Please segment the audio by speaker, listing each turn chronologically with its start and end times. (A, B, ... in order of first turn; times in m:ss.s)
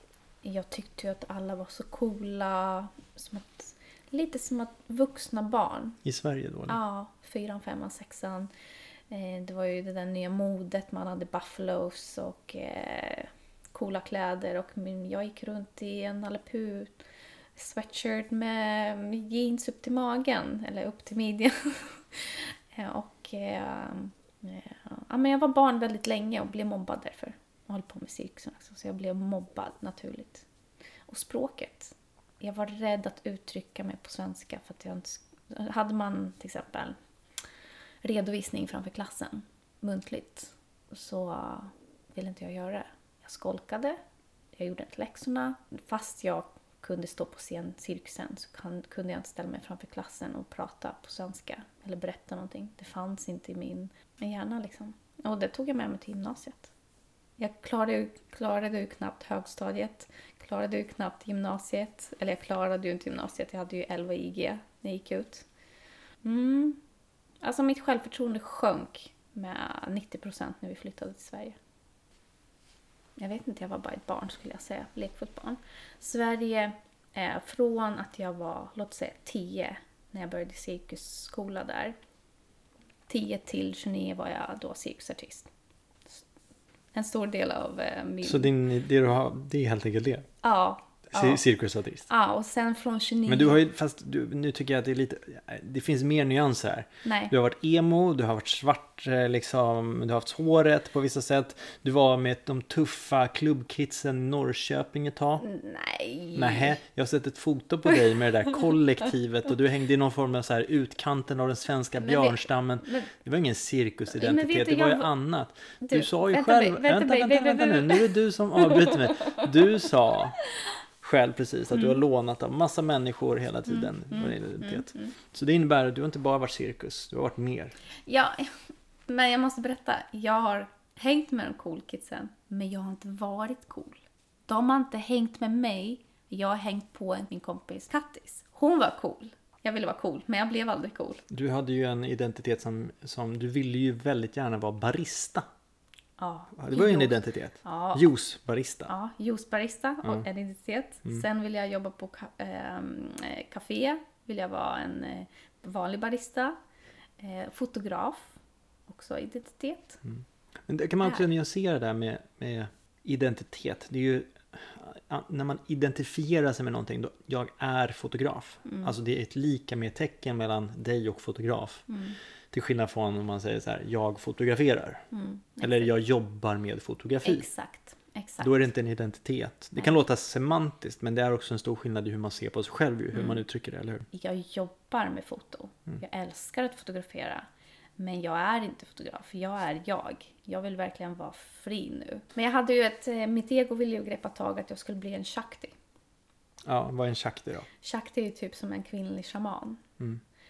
0:00.4-0:06.0 A
0:06.0-0:06.8 B
0:06.7-0:08.5 A
0:09.1-0:17.0 A
0:17.6-0:30.5 A
0:31.1-0:37.0 A
0:38.0-0:44.0 A
0:44.5-0:56.7 A
0:57.4-1:05.5 A
1:06.2-1:06.8 A
1:07.4-1:11.6 A
1:13.2-1:22.0 A
1:23.1-1:25.5 A
1:26.9-1:28.5 A
1:28.2-1:30.3 B
1:30.4-1:31.4 A
1:31.1-1:32.1 B
1:32.1-1:33.6 A
1:33.3-1:45.4 B
1:37.0-1:37.3 A
1:45.4-1:46.7 A
1:46.4-2:00.4 B
1:52.0-1:53.1 A
1:54.1-1:55.1 A
1:55.8-1:59.5 A
2:01.0-2:07.8 B
2:03.7-2:05.1 A
2:08.1-2:08.5 A
2:09.1-2:21.2 A
2:21.3-2:25.4 B
2:26.2-2:28.0 A
2:26.6-2:28.9 B
2:28.9-2:36.6 A
2:37.2-2:38.4 A
2:38.9-2:40.0 A
2:40.0-2:51.9 B
2:48.6-2:48.9 A
2:51.9-2:52.2 A
2:52.5-2:55.0 B
2:55.1-2:55.9 A
2:55.6-2:57.5 B
2:57.2-2:58.5 A
2:58.4-3:04.1 B
3:03.1-3:03.4 A
3:04.1-3:07.4 A
3:08.0-3:15.8 A
3:16.6-3:17.7 B
3:17.8-3:19.8 A